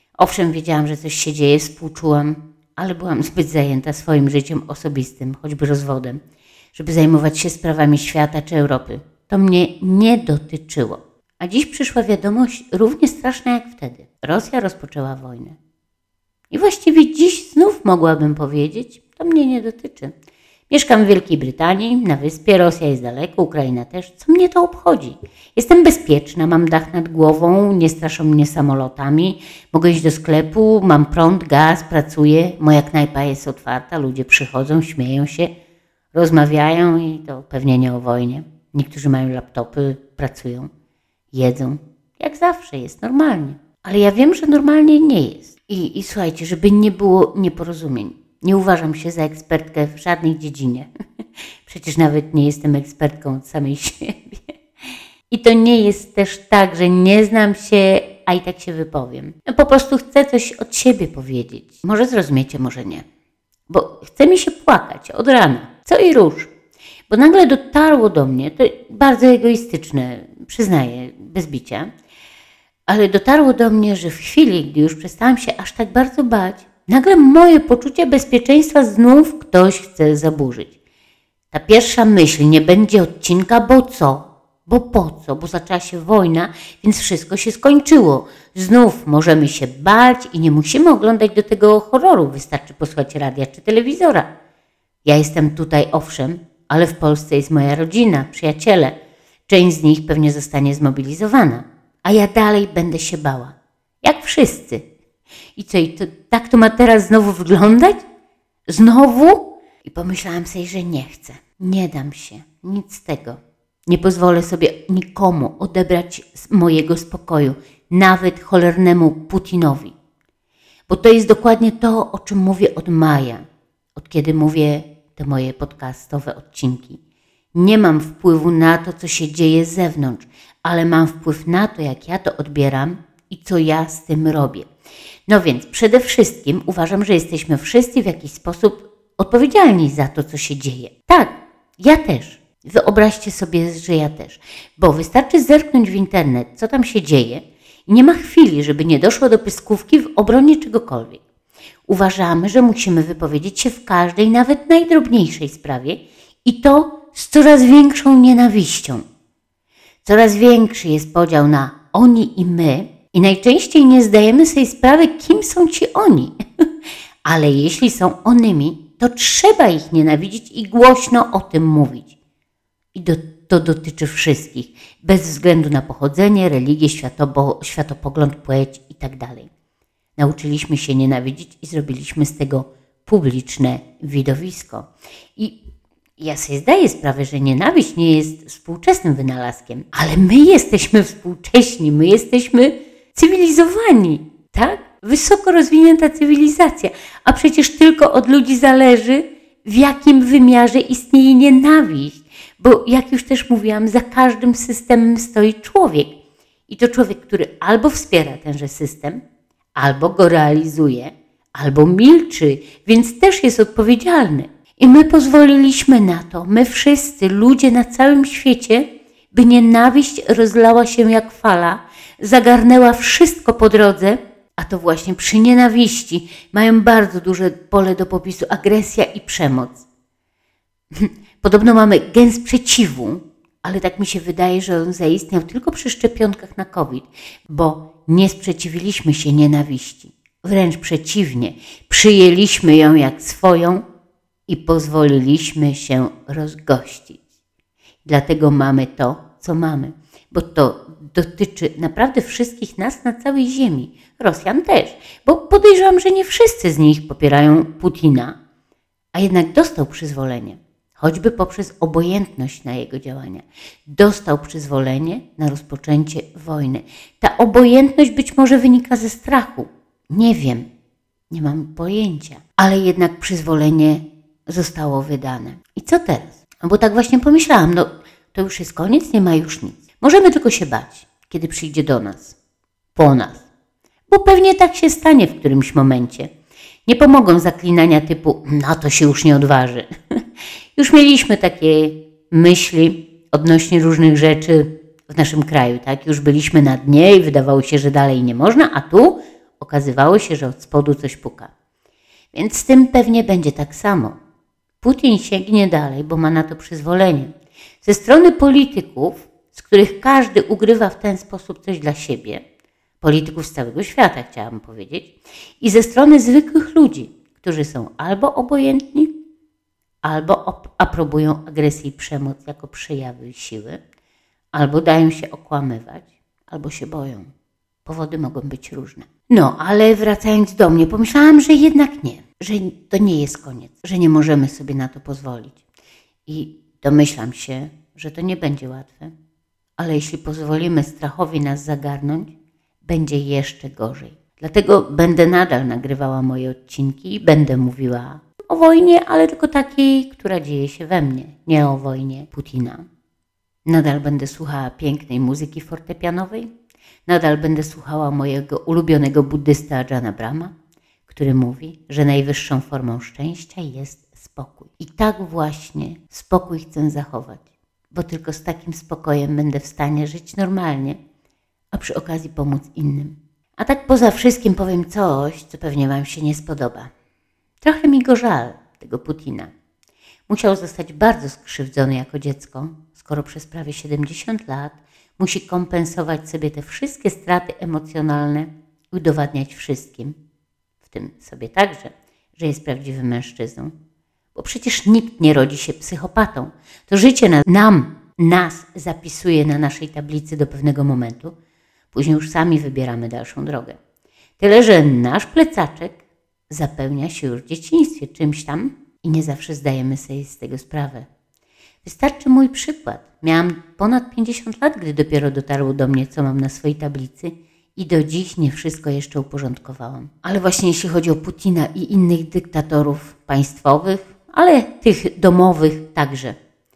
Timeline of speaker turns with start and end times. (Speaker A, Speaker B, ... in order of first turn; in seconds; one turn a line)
Speaker A: 0.2-6.2
Speaker A: 6.7-15.6
Speaker A: 16.5-20.1
Speaker A: 20.7-35.5
Speaker A: 36.1-40.7
Speaker A: 41.3-50.9
Speaker A: 51.6-54.4
Speaker A: 55.3-63.0
Speaker A: 63.7-66.5
Speaker A: 67.1-71.9
Speaker A: 72.9-80.7
Speaker A: 81.5-94.3
Speaker A: 95.0-98.9
Speaker A: 99.5-104.8
Speaker A: 105.6-108.0
Speaker A: 108.7-119.9
Speaker A: 120.9-123.4
Speaker A: 124.0-127.0
Speaker A: 127.5-134.7
Speaker A: 135.3-151.2
Speaker A: 151.9-159.0
Speaker A: 160.0-166.3
Speaker A: 167.2-172.1
Speaker A: 172.9-179.5
Speaker A: 180.2-185.5
Speaker A: 186.2-206.1
Speaker A: 206.7-209.2
Speaker A: 209.8-229.8
Speaker A: 230.9-243.8
Speaker A: 244.5-247.2
Speaker A: 248.0-258.3
Speaker A: 259.1-270.6
Speaker A: 271.3-282.4
Speaker A: 282.9-283.4
Speaker A: 284.1-286.3
Speaker A: 286.9-289.9
Speaker A: 290.8-301.5
Speaker A: 302.3-304.2
Speaker A: 304.8-307.3
Speaker A: 307.8-312.4
Speaker A: 313.0-319.1
Speaker A: 320.0-323.8
Speaker A: 324.5-327.3
Speaker A: 327.8-335.6
Speaker A: 336.3-339.1
Speaker A: 339.8-342.3
Speaker A: 342.8-352.8
Speaker A: 353.6-356.5
Speaker A: 357.1-360.5
Speaker A: 361.1-371.0
Speaker A: 371.7-376.9
Speaker A: 377.6-379.5
Speaker A: 380.3-390.1
Speaker A: 390.8-393.7
Speaker A: 394.3-401.3
Speaker A: 401.9-403.8
Speaker A: 404.4-406.0
Speaker A: 406.5-411.1
Speaker A: 411.8-426.4